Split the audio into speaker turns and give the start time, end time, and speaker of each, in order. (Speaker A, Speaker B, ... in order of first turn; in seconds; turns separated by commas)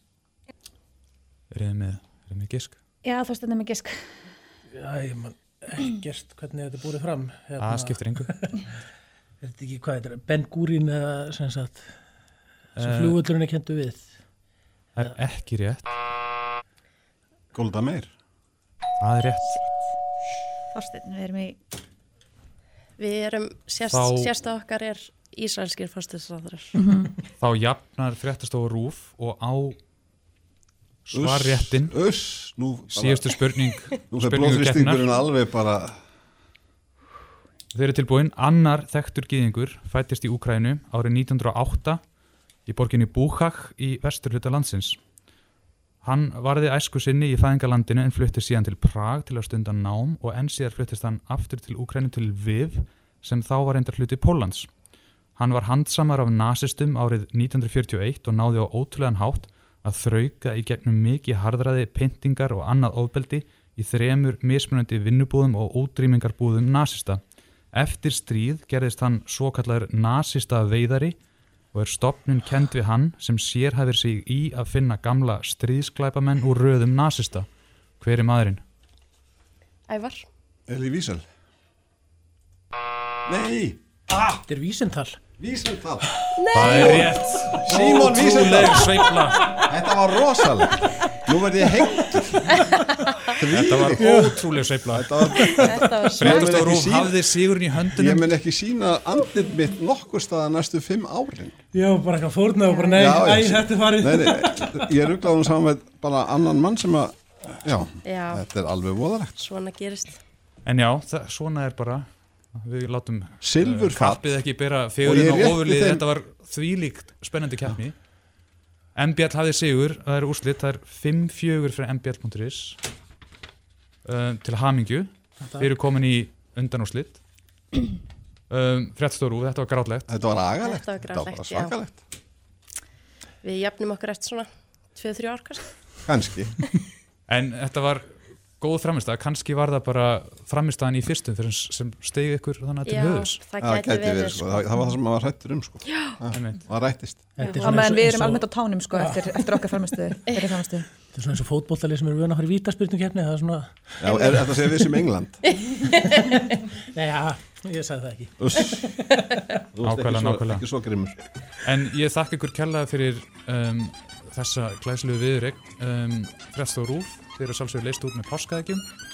Speaker A: 1.5-2.8, Speaker B: 3.0-4.2, Speaker C: 4.7-8.7, Speaker A: 7.6-8.3, Speaker C: 9.4-12.0, Speaker C: 12.7-14.2, Speaker A: 12.8-13.2, Speaker A: 14.9-15.9, Speaker D: 17.5-18.1, Speaker A: 19.0-19.6, Speaker B: 20.7-21.6, Speaker E: 23.0-26.7, Speaker A: 23.8-24.3, Speaker B: 26.8-27.1, Speaker A: 27.4-29.8, Speaker A: 31.1-31.9, Speaker D: 31.1-33.3, Speaker A: 32.9-35.1, Speaker D: 34.1-36.0, Speaker A: 37.7-42.0, Speaker A: 42.6-45.0, Speaker A: 46.0-54.7, Speaker A: 55.4-67.2, Speaker A: 67.7-71.2, Speaker A: 71.7-77.5, Speaker A: 78.0-78.6, Speaker E: 79.9-80.3, Speaker D: 80.7-81.2, Speaker D: 83.3-84.3, Speaker C: 84.5-85.2, Speaker D: 85.4-86.0, Speaker E: 86.3-87.1, Speaker A: 86.5-89.5, Speaker D: 86.6-88.9, Speaker D: 89.7-92.5, Speaker D: 93.3-94.3, Speaker A: 93.5-95.2, Speaker C: 94.0-94.4, Speaker D: 94.9-97.2, Speaker E: 95.5-96.7, Speaker A: 96.2-98.2, Speaker D: 97.9-101.6, Speaker C: 101.7-104.8, Speaker D: 102.9-109.3, Speaker E: 108.0-108.4, Speaker E: 109.4-110.2, Speaker A: 110.6-118.0, Speaker D: 113.4-116.0, Speaker A: 119.0-122.8, Speaker A: 124.0-127.2, Speaker C: 125.4-125.7, Speaker A: 128.5-130.1, Speaker D: 130.1-132.0, Speaker E: 130.6-131.7, Speaker E: 133.4-135.9, Speaker D: 136.0-136.5, Speaker A: 137.3-143.4, Speaker E: 142.8-144.7, Speaker D: 143.6-147.3, Speaker E: 145.8-146.1, Speaker A: 146.3-146.6, Speaker C: 147.3-149.7, Speaker B: 147.4-150.9, Speaker C: 151.1-154.7, Speaker D: 154.0-155.4, Speaker C: 156.9-159.3, Speaker D: 158.4-158.8, Speaker D: 159.7-161.2, Speaker A: 159.8-160.6, Speaker A: 161.6-168.9